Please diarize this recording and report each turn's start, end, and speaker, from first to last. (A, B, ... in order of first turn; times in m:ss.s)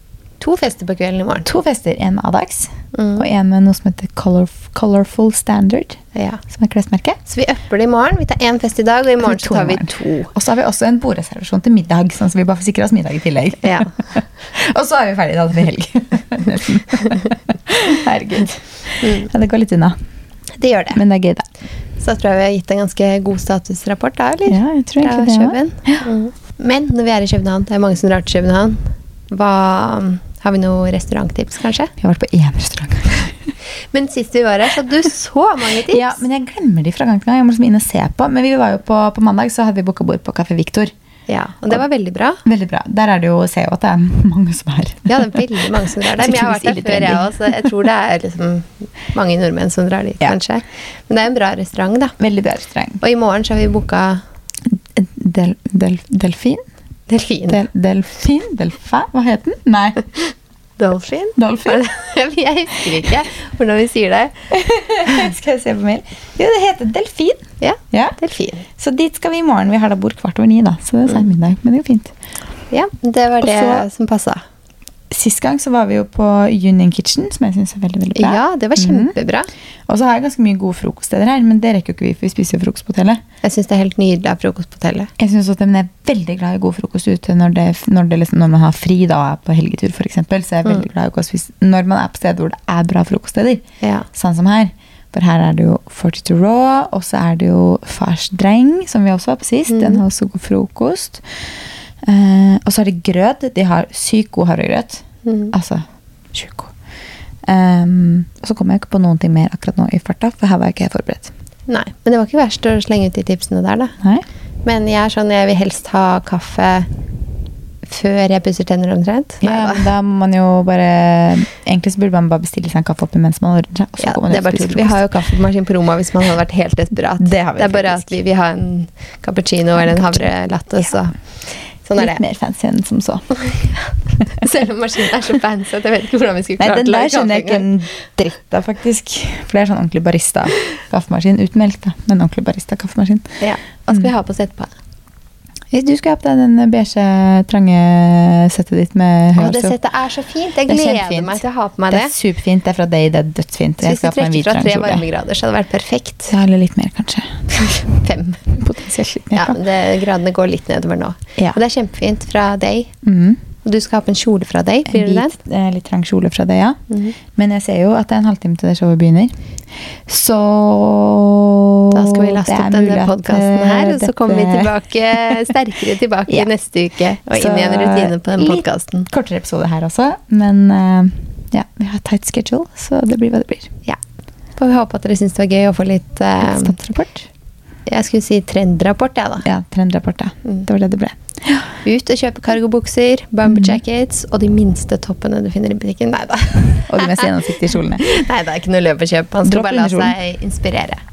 0:00.4-0:01.5 A
0:01.4-0:07.2 B
0:02.9-0:03.2 A
0:06.1-0:06.4 A
0:07.2-0:10.3 A
0:09.2-0:20.0 B
0:13.6-0:13.9 A
0:19.0-0:19.3 A
0:20.5-0:21.0 A
0:20.9-0:21.4 B
0:22.0-0:31.9 A
0:24.5-0:26.1 B
0:32.0-0:33.5 B
0:33.9-0:36.2 A
0:35.8-0:40.9 B
0:41.3-0:42.4 A
0:42.4-0:47.5 B
0:45.1-0:52.2 A
0:52.2-0:53.0 B
0:53.0-0:54.2 A
0:54.7-0:56.6 B
0:57.1-0:57.6 A
0:57.5-1:00.1 B
1:00.8-1:04.3 A
1:01.4-1:01.9 B
1:04.5-1:08.2 B
1:07.6-1:08.6 A
1:08.8-1:12.1 B
1:12.7-1:14.4 A
1:13.4-1:13.8 B
1:15.1-1:19.1 B
1:18.2-1:19.5 A
1:19.9-1:23.2 B
1:23.4-1:25.1 A
1:25.2-1:41.2 B
1:33.8-1:34.0 A
1:39.7-1:40.0 A
1:42.0-1:46.7 B
1:45.2-1:45.5 A
1:47.4-1:51.3 B
1:51.7-1:54.0 A
1:54.0-1:54.2 B
1:54.6-1:56.9 A
1:57.8-1:59.8 A
1:59.4-2:05.0 B
2:04.0-2:11.2 A
2:07.2-2:08.1 B
2:09.8-2:10.3 B
2:11.8-2:12.2 A
2:12.0-2:13.4 B
2:13.3-2:17.7 A
2:16.6-2:23.3 B
2:23.4-2:24.7 A
2:25.7-2:29.8 B
2:29.4-2:32.1 A
2:30.7-2:35.0 B
2:33.8-2:36.3 A
2:36.3-2:37.4 B
2:37.5-2:38.5 A
2:38.5-2:39.6 B
2:39.3-2:42.9 A
2:43.0-2:43.4 B
2:43.6-2:45.4 A
2:44.9-2:46.8 B
2:46.9-2:47.2 A
2:47.3-2:49.3 B
2:50.0-2:54.7 B
2:51.9-2:59.1 A
2:57.3-3:03.7 B
3:04.6-3:06.8 A
3:06.4-3:07.3 B
3:07.8-3:09.4 A
3:09.4-3:11.7 B
3:11.8-3:21.0 A
3:13.5-3:13.8 B
3:16.9-3:18.1 B
3:19.4-3:20.1 B